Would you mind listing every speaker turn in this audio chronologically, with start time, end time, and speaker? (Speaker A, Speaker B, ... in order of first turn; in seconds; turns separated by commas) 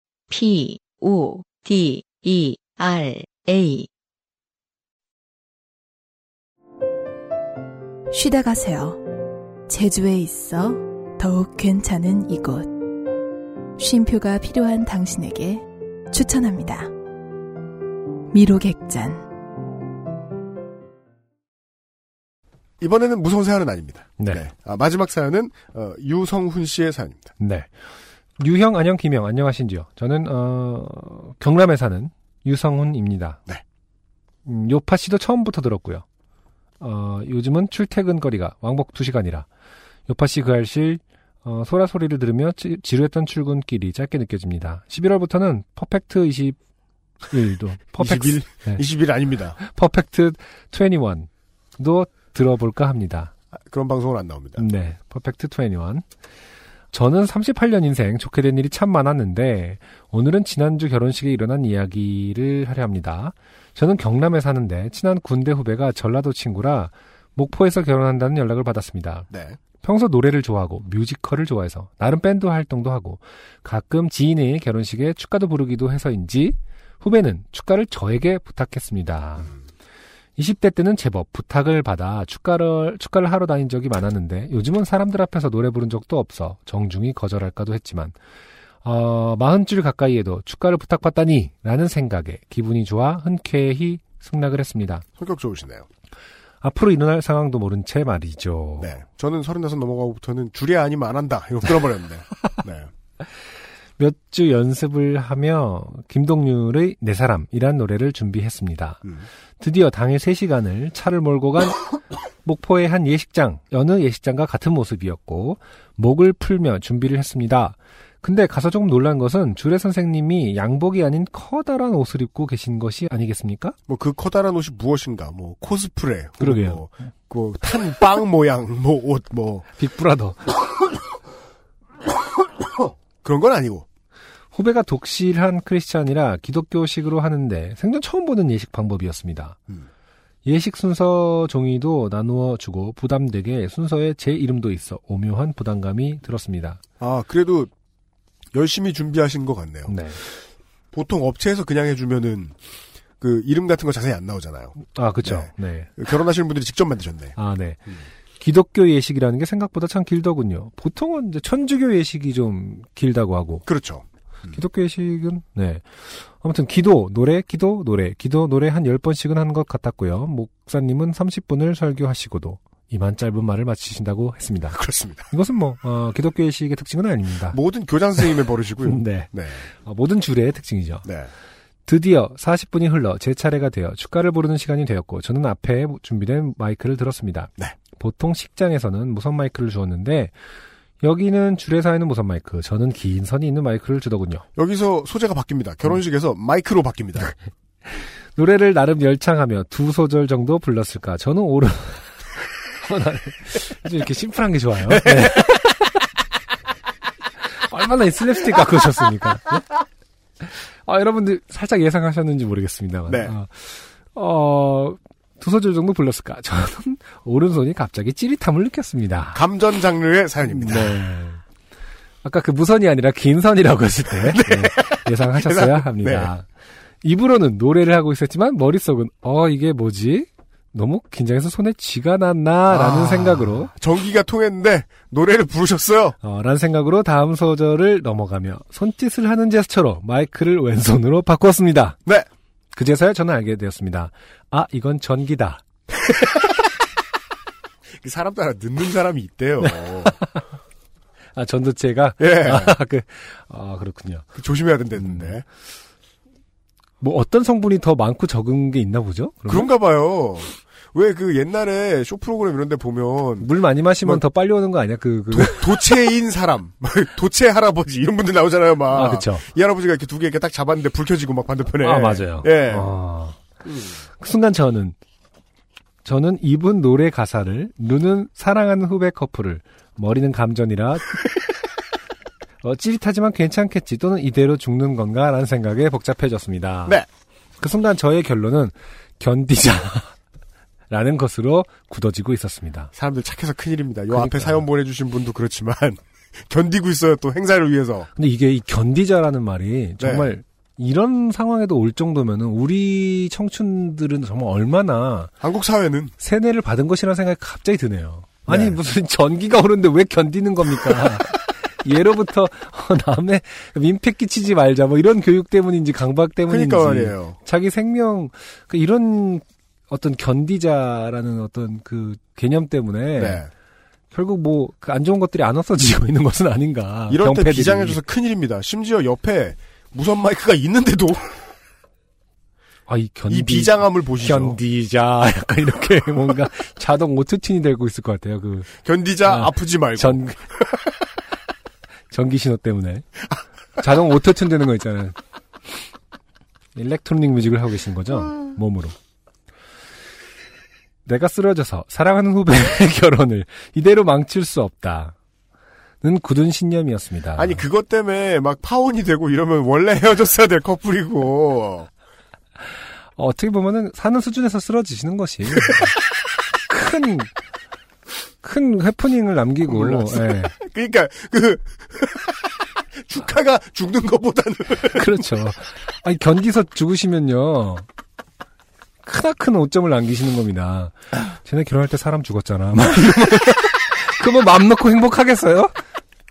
Speaker A: 0.3-3.9, Speaker B: 8.1-9.0, Speaker B: 9.7-12.7, Speaker B: 13.8-16.9, Speaker B: 18.3-19.2, Speaker C: 22.8-27.3, Speaker D: 27.4-27.7, Speaker D: 28.4-33.4, Speaker D: 34.5-36.0, Speaker D: 36.8-39.5, Speaker D: 40.1-46.6, Speaker D: 47.3-48.8, Speaker C: 48.0-49.6, Speaker D: 49.6-53.3, Speaker C: 53.6-54.6, Speaker D: 54.6-56.0, Speaker D: 56.9-69.3, Speaker C: 69.3-69.6, Speaker D: 69.8-79.5, Speaker D: 80.4-88.2, Speaker D: 88.8-95.0, Speaker C: 95.2-95.9, Speaker D: 96.6-98.9, Speaker C: 98.8-102.9, Speaker D: 104.0-109.0, Speaker D: 109.6-111.8, Speaker D: 112.4-123.8, Speaker C: 123.9-129.7, Speaker D: 126.4-126.8, Speaker D: 129.8-130.4, Speaker C: 133.2-133.9, Speaker D: 134.5-139.6, Speaker D: 140.4-146.8, Speaker C: 147.0-147.7, Speaker C: 148.5-149.9, Speaker D: 149.9-150.2, Speaker C: 150.9-152.6, Speaker C: 153.2-157.4, Speaker D: 154.8-156.0, Speaker D: 157.4-157.8, Speaker D: 158.4-163.7, Speaker C: 163.7-164.5, Speaker D: 164.5-174.8, Speaker C: 174.7-175.3, Speaker D: 175.3-177.6, Speaker C: 177.5-179.7, Speaker D: 178.8-181.1, Speaker C: 181.1-181.3, Speaker D: 181.9-190.3, Speaker D: 191.0-194.5, Speaker C: 194.6-197.3, Speaker D: 198.3-205.9, Speaker C: 204.9-205.5, Speaker D: 207.5-209.7, Speaker D: 210.4-219.4, Speaker C: 213.1-213.3, Speaker C: 219.3-221.0, Speaker D: 220.6-221.4, Speaker D: 222.2-226.5, Speaker C: 224.2-226.3, Speaker D: 227.0-233.7, Speaker C: 232.7-236.2, Speaker D: 236.2-242.0, Speaker D: 242.8-245.6, Speaker C: 248.0-250.2, Speaker D: 249.6-250.4, Speaker D: 251.3-254.3, Speaker C: 252.2-252.8, Speaker C: 254.3-255.4, Speaker D: 255.0-255.3, Speaker D: 257.0-259.7, Speaker C: 259.5-263.5, Speaker D: 263.4-265.9, Speaker C: 265.3-272.9, Speaker D: 268.9-269.4, Speaker D: 271.8-273.4, Speaker C: 273.6-274.0, Speaker D: 274.2-274.9, Speaker D: 276.0-281.2, Speaker D: 282.6-287.0, Speaker D: 287.6-290.1, Speaker D: 290.9-292.9, Speaker C: 292.9-298.1, Speaker D: 294.1-294.7, Speaker D: 298.1-305.3, Speaker C: 300.0-300.3, Speaker C: 305.4-306.1, Speaker D: 306.2-323.4, Speaker C: 308.5-308.8, Speaker C: 316.5-317.4, Speaker C: 323.2-323.5, Speaker D: 324.1-328.0, Speaker C: 327.1-331.4, Speaker D: 332.9-340.5, Speaker C: 333.3-334.6, Speaker C: 338.8-340.3, Speaker D: 342.1-343.1, Speaker D: 343.8-345.1, Speaker D: 346.8-348.9, Speaker D: 351.1-355.1, Speaker D: 356.0-357.6, Speaker C: 357.4-361.9, Speaker D: 363.2-365.9, Speaker D: 366.7-367.3, Speaker D: 368.4-370.5, Speaker C: 369.7-372.6, Speaker C: 373.1-375.1, Speaker D: 374.9-377.9, Speaker D: 379.0-385.7